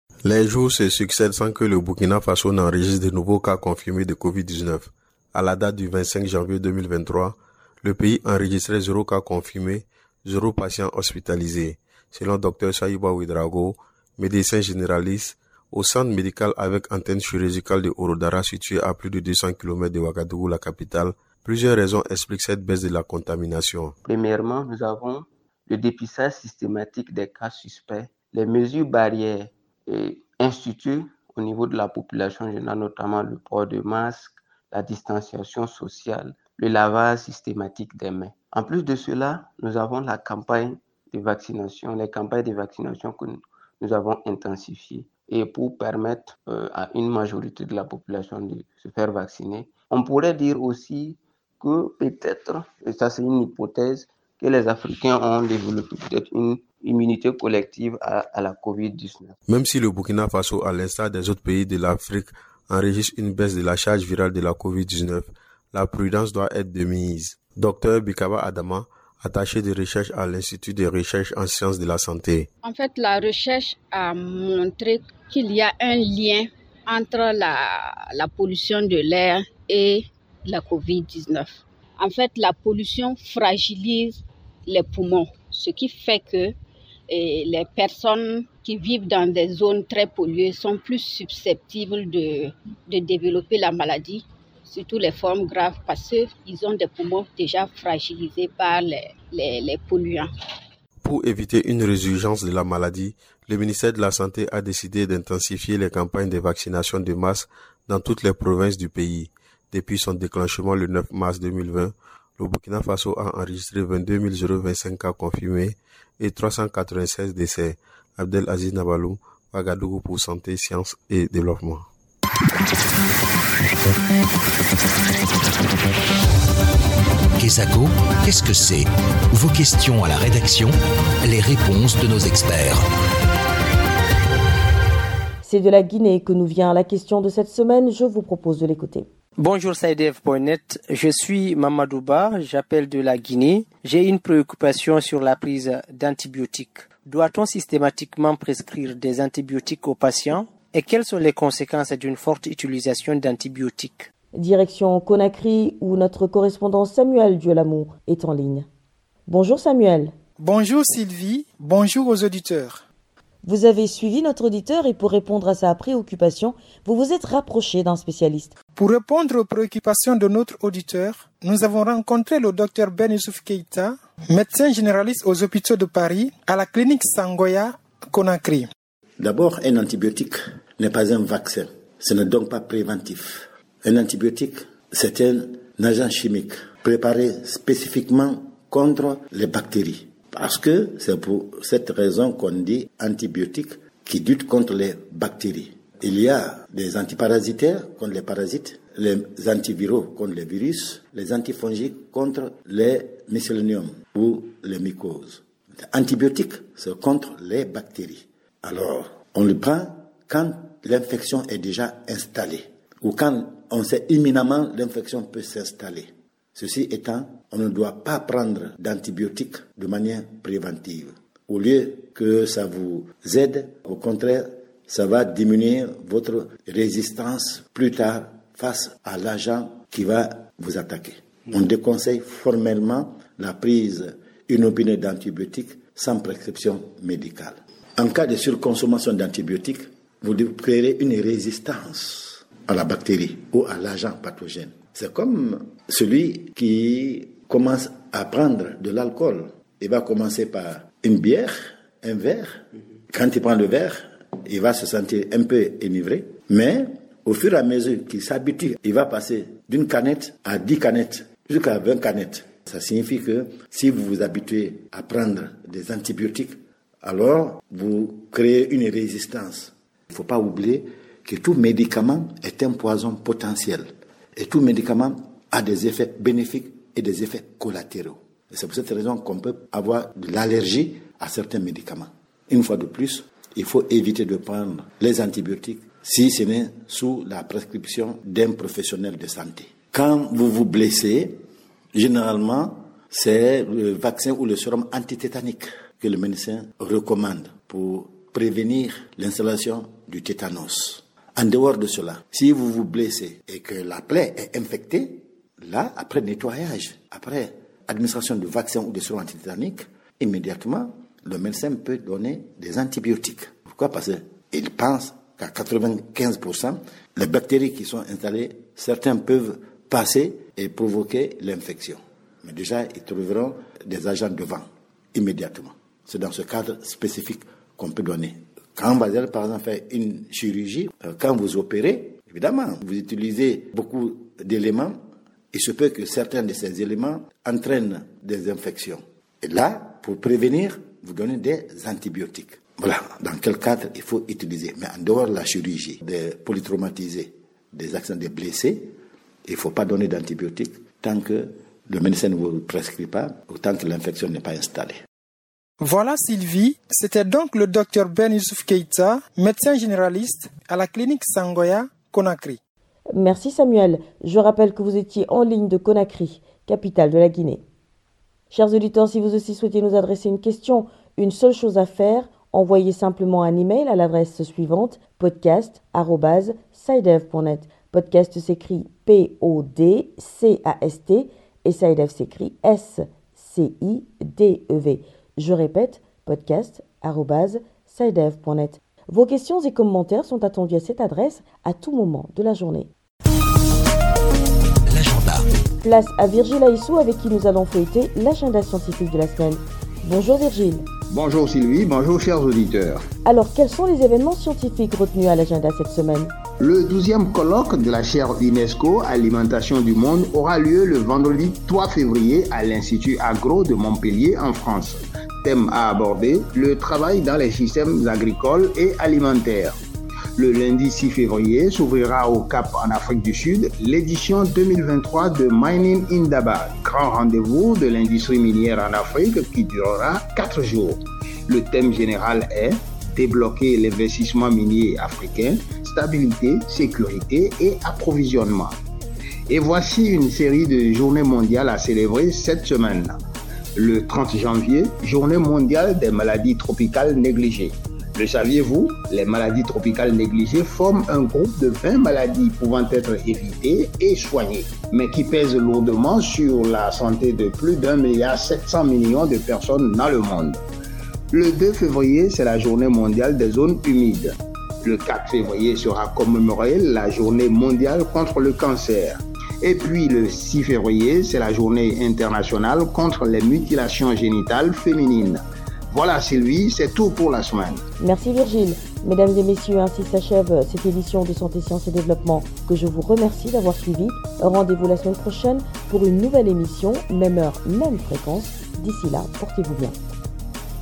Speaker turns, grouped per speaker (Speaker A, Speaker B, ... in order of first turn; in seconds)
Speaker A: 0.2-23.9, 59.5-72.5, 101.0-121.9
Speaker B: 24.0-59.4
Speaker C: 72.6-86.5, 87.1-100.3
Speaker D: 127.4-128.8, 129.3-130.7, 131.2-132.8, 394.9-395.4
Speaker E: 128.2-128.5, 394.9-395.4, 401.1-403.0, 406.6-419.8, 420.4-438.8, 439.5-443.2, 443.8-460.6, 461.3-477.8
Speaker F: 135.4-139.1, 154.4-158.7, 159.3-160.1, 163.4-168.5, 363.2-367.6, 368.5-392.9, 395.8-400.8, 403.2-406.3, 478.0-489.9
Speaker G: 139.4-154.0
Speaker H: 160.4-162.8, 168.8-178.7, 355.8-362.6
Speaker I: 179.2-291.4, 291.9-334.9, 335.5-348.9, 349.4-355.0